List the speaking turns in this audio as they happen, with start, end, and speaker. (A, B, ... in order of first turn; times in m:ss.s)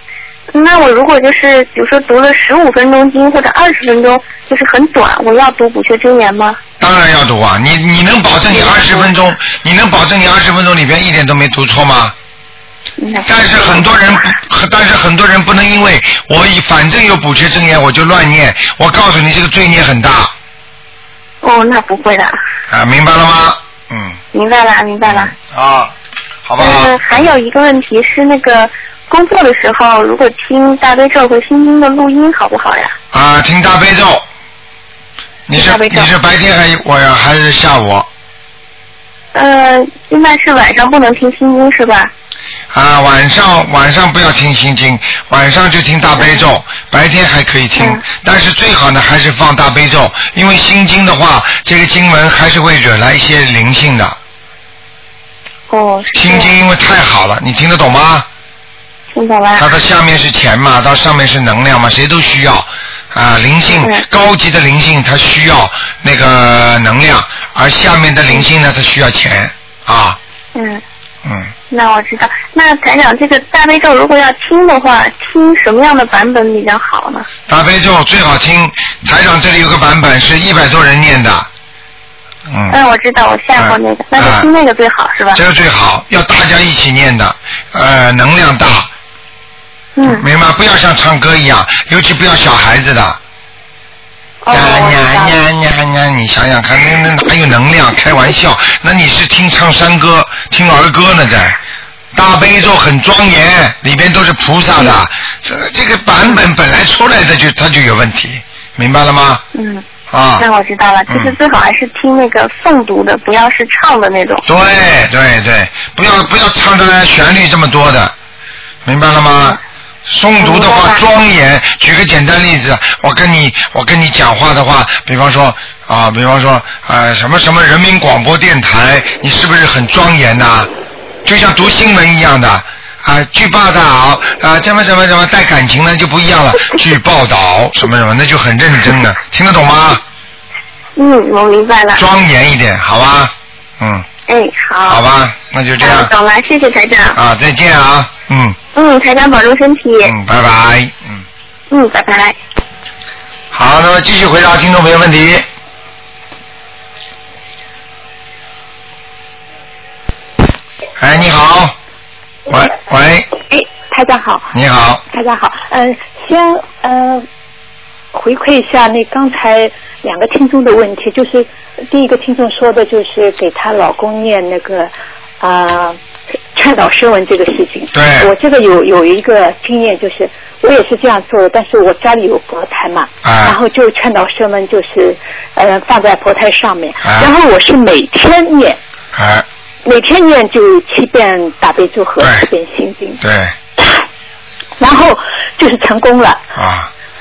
0:00.5-0:06.6 A
0:06.8-0:12.1 B
0:08.5-0:09.1 A
0:13.0-0:14.3 A
0:13.2-0:20.3 B
0:21.4-0:22.4 A
0:22.7-0:24.2 B
0:24.3-0:25.3 A
0:25.1-0:25.9 B
0:26.5-0:27.3 B
0:26.6-0:32.9 A
0:33.1-0:34.2 B
0:35.5-0:38.1 B
0:35.5-0:36.1 A
0:39.3-0:42.1 A
0:42.7-0:54.2 B
0:47.8-0:48.0 A
0:55.7-0:56.5 A
0:56.1-0:58.2 B
0:59.1-0:59.7 A
0:59.6-1:10.2 B
1:03.8-1:04.0 A
1:10.6-1:10.8 A
1:11.2-1:11.5 B
1:11.7-1:17.3 A
1:17.5-1:21.5 B
1:22.5-1:22.8 B
1:22.7-1:25.4 A
1:23.6-1:24.5 B
1:25.3-1:28.9 B
1:30.0-1:30.2 A
1:30.0-1:33.2 B
1:34.4-1:35.4 A
1:34.5-1:41.6 B
1:42.1-1:49.4 B
1:49.5-1:49.8 A
1:50.1-1:50.5 B
1:50.4-1:54.4 A
1:51.1-1:51.4 B
1:54.5-1:58.1 B
1:58.8-2:10.7 B
2:00.4-2:01.0 A
2:11.2-2:20.0 B
2:21.0-2:22.0 A
2:22.0-2:24.1 B
2:24.3-2:25.0 A
2:24.9-2:26.1 B
2:25.8-2:27.2 A
2:27.1-2:28.6 B
2:28.8-2:30.1 A
2:30.0-2:31.2 B
2:31.7-2:32.4 A
2:33.5-2:35.4 B
2:41.0-2:41.7 B
2:42.5-2:43.3 B
2:43.5-2:44.5 C
2:44.5-2:45.0 B
2:45.1-2:47.2 C
2:48.1-2:56.0 C
2:56.5-3:08.8 C
2:57.9-2:58.3 B
3:03.2-3:03.6 B
3:07.0-3:07.3 B
3:09.1-3:09.5 B
3:09.8-3:13.2 C
3:12.2-3:12.5 B
3:13.2-3:13.5 B
3:13.8-3:14.0 C
3:14.8-3:16.4 C
3:16.6-3:16.9 B